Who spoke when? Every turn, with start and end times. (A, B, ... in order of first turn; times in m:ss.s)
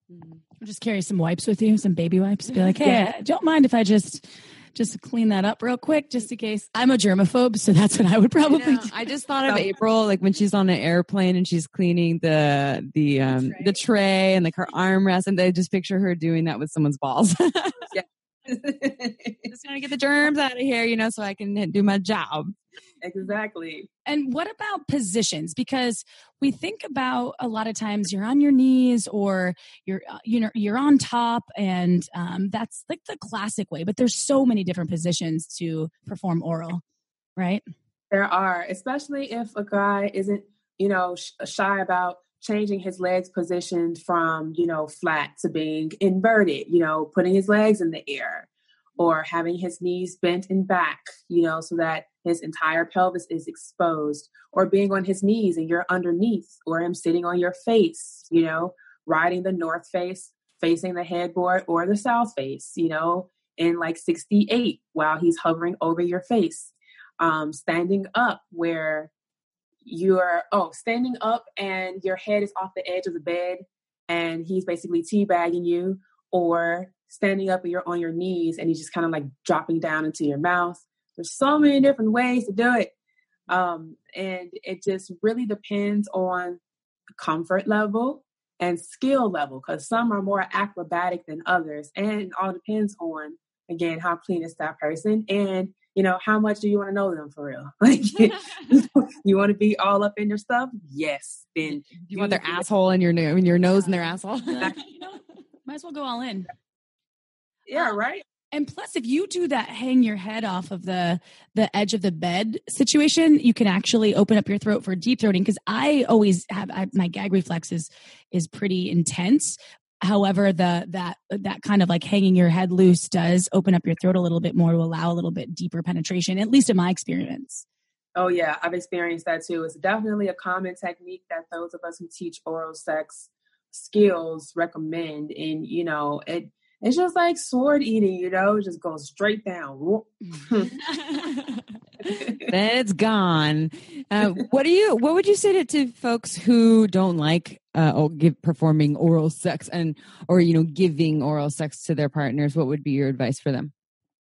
0:00.1-0:00.4 A
0:00.6-0:08.9 B
0:08.5-0:17.9 A
0:09.4-0:09.7 C
0:17.9-0:19.5 C
0:19.5-0:22.6 A
0:23.0-0:23.9 C
0:24.1-0:36.8 B
0:37.4-0:37.6 B
0:38.1-1:09.1 C
1:09.8-1:22.9 C
1:23.5-1:26.6 C
1:27.2-1:42.7 C
1:41.7-1:44.7 A
1:44.5-1:46.5 B
1:47.7-1:48.2 C
1:48.5-2:07.7 B
2:08.2-2:20.8 C
2:20.9-2:33.7 A
2:22.2-2:22.5 C